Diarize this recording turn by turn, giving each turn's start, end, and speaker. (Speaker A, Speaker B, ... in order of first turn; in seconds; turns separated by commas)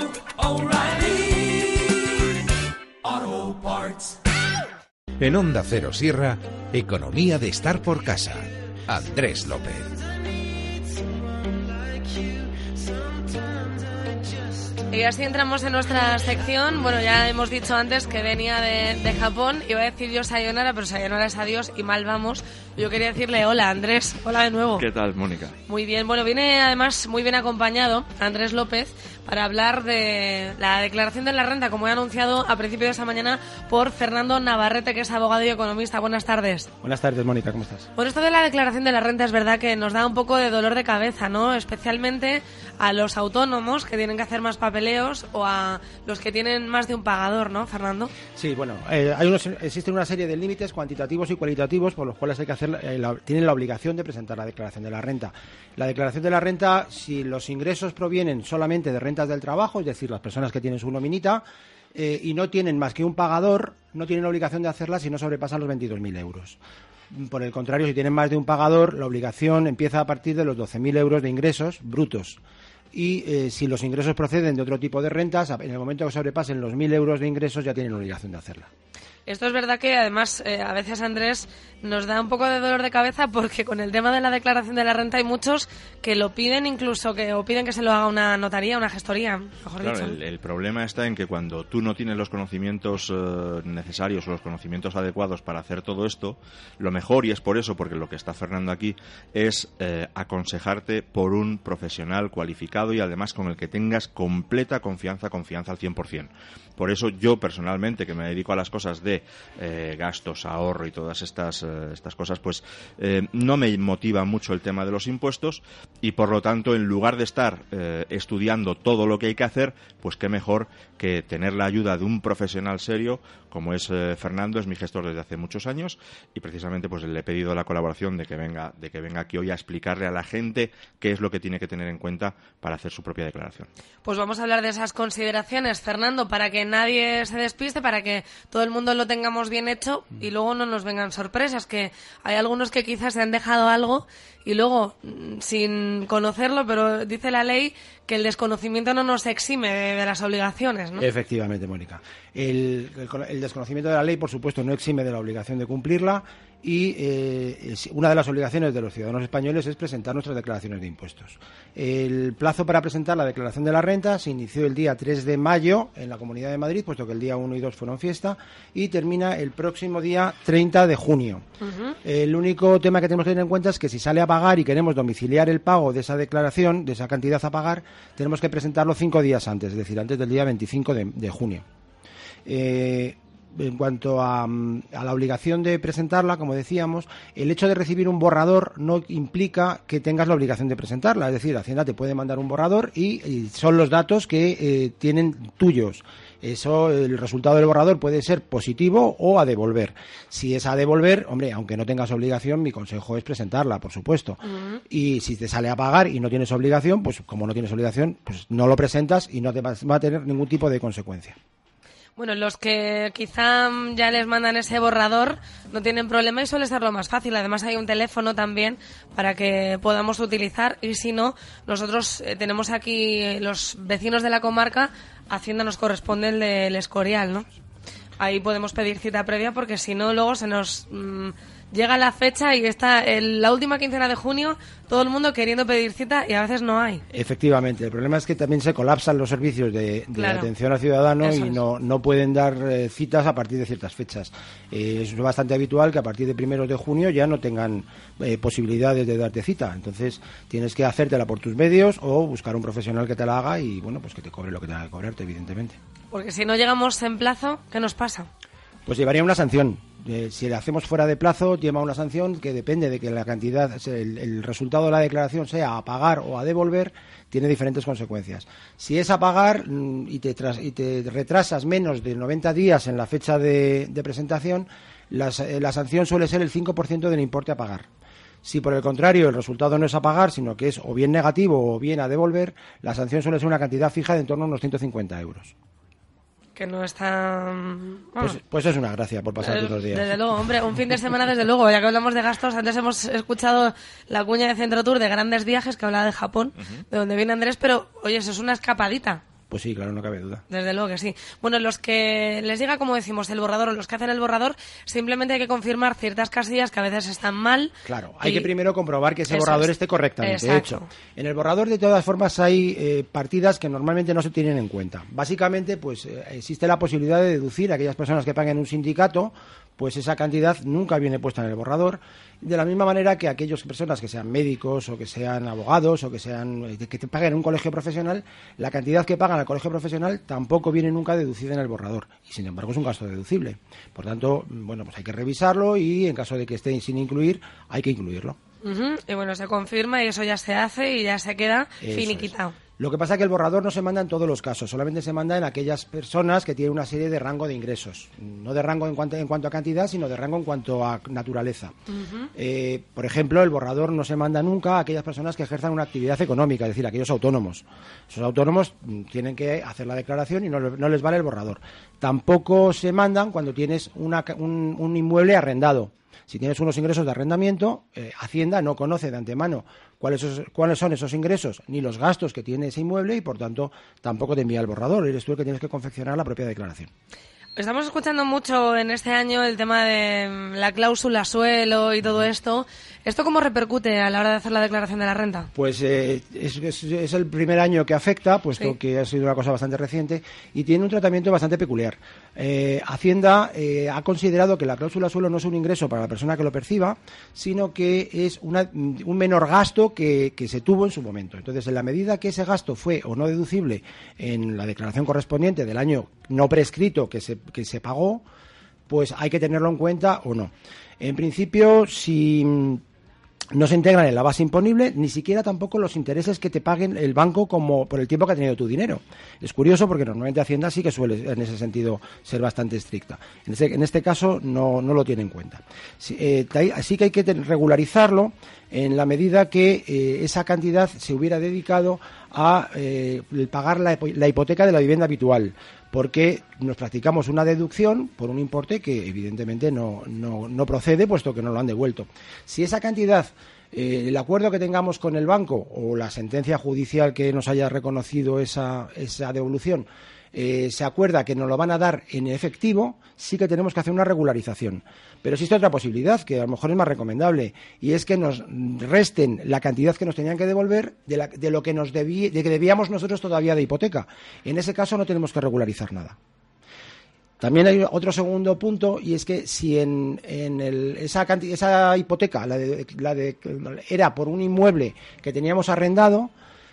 Speaker A: 0.4-2.0, Speaker A: 3.1-3.9, Speaker B: 5.2-9.8, Speaker C: 14.9-24.9, Speaker D: 24.8-25.6, Speaker C: 25.7-36.7, Speaker E: 36.8-37.9, Speaker C: 38.0-48.1, Speaker E: 48.4-66.6, Speaker E: 67.1-72.4, Speaker E: 72.9-78.7, Speaker C: 79.2-90.2, Speaker D: 89.8-133.7, Speaker C: 134.0-151.1, Speaker E: 151.0-171.4, Speaker C: 171.6-171.9, Speaker E: 172.0-181.6, Speaker E: 182.4-211.3, Speaker C: 204.4-204.8, Speaker C: 212.2-227.5, Speaker C: 228.2-237.0, Speaker E: 237.1-255.8, Speaker C: 240.2-240.5, Speaker C: 241.2-241.6, Speaker C: 256.1-258.3, Speaker E: 258.9-277.9, Speaker E: 278.4-285.5, Speaker C: 286.6-288.4, Speaker E: 288.2-290.1, Speaker C: 289.4-299.2, Speaker E: 299.5-300.4, Speaker C: 300.5-307.7, Speaker E: 307.9-338.4, Speaker C: 308.2-308.5, Speaker C: 309.3-310.9, Speaker C: 338.6-342.5, Speaker E: 341.8-351.7, Speaker E: 352.3-376.9, Speaker C: 377.6-385.5, Speaker E: 385.5-408.2, Speaker E: 408.9-412.8, Speaker E: 413.5-466.1, Speaker E: 467.4-476.3